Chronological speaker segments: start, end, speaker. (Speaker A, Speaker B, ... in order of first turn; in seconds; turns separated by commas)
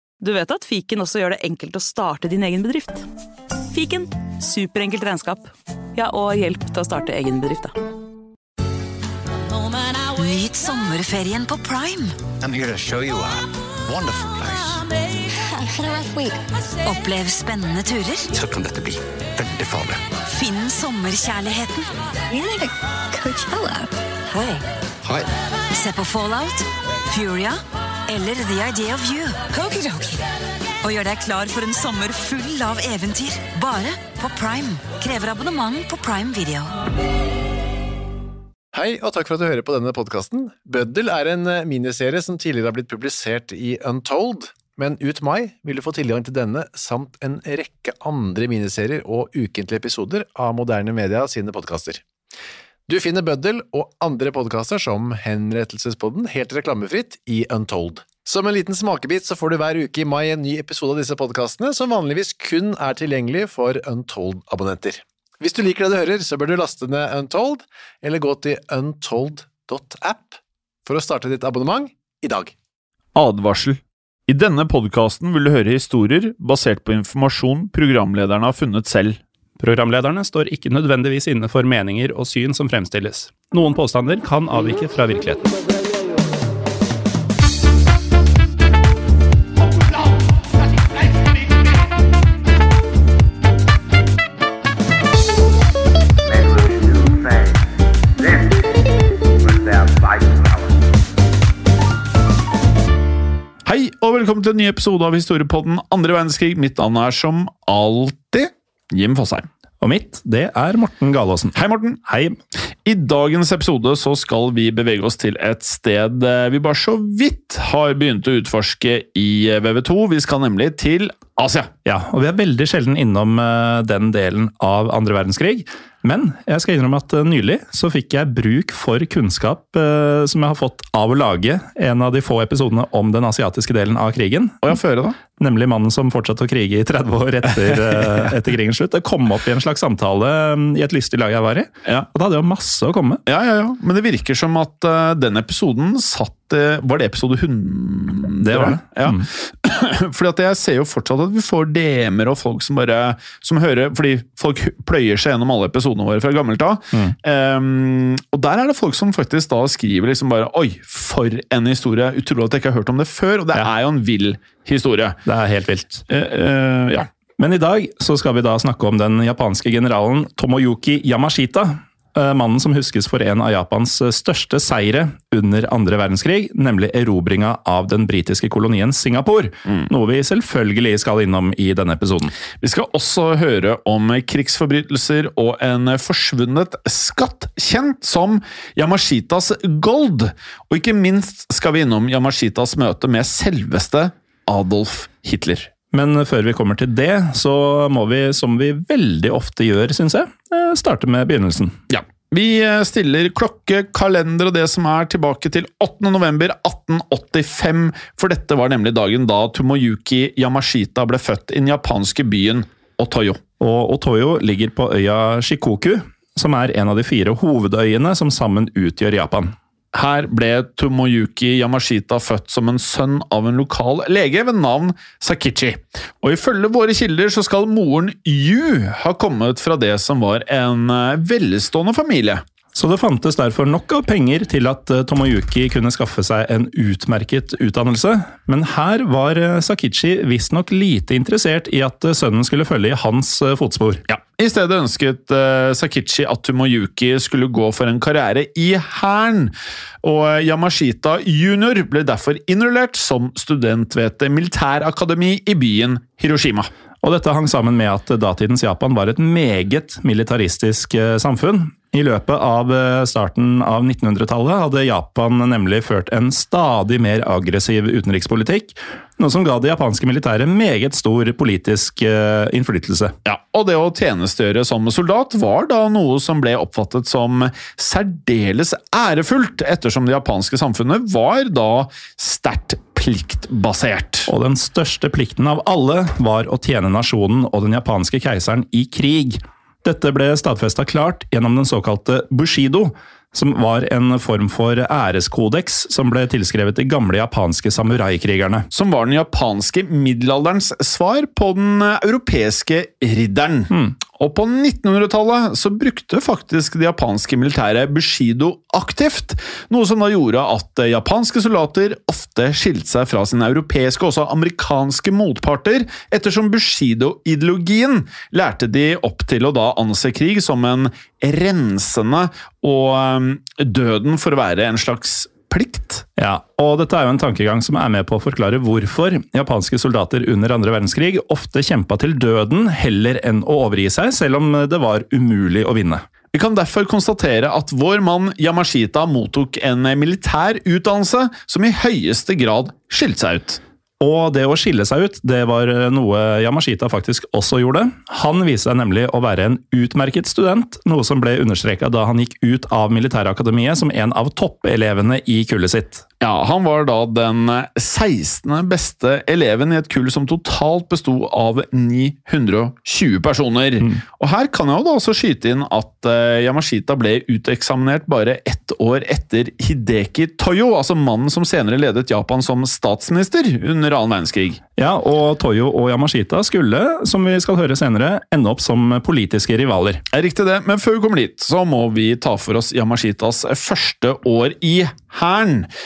Speaker A: 0.2-3.0, Speaker A: 3.7-7.7, Speaker B: 10.1-12.2, Speaker C: 12.4-14.8, Speaker D: 15.5-16.4, Speaker B: 16.8-18.3, Speaker C: 18.3-20.0, Speaker B: 20.3-22.0, Speaker D: 22.3-23.9, Speaker B: 24.3-24.6, Speaker C: 25.0-25.3, Speaker B: 25.7-30.2, Speaker B: 30.8-36.7, Speaker E: 38.7-52.0, Speaker E: 52.9-72.5, Speaker F: 73.1-79.2, Speaker G: 79.6-85.4, Speaker F: 103.7-109.5, Speaker G: 109.8-112.4, Speaker F: 111.5-112.0, Speaker F: 112.8-121.7, Speaker G: 121.8-134.7, Speaker F: 134.6-135.2, Speaker G: 135.3-143.2, Speaker F: 143.2-165.2, Speaker G: 148.4-149.2, Speaker G: 165.2-166.0, Speaker F: 166.1-167.1, Speaker G: 167.4-182.3, Speaker F: 182.6-195.7, Speaker G: 195.9-201.8, Speaker F: 201.9-213.4, Speaker G: 213.6-219.5, Speaker F: 219.9-232.4, Speaker G: 232.7-244.0, Speaker F: 244.1-256.7, Speaker G: 257.0-273.1, Speaker F: 273.2-284.3, Speaker G: 284.3-298.7, Speaker F: 298.7-326.0, Speaker G: 326.2-336.0, Speaker F: 336.3-343.6, Speaker G: 344.0-356.0, Speaker F: 356.2-374.6, Speaker G: 374.8-380.0, Speaker F: 380.1-385.7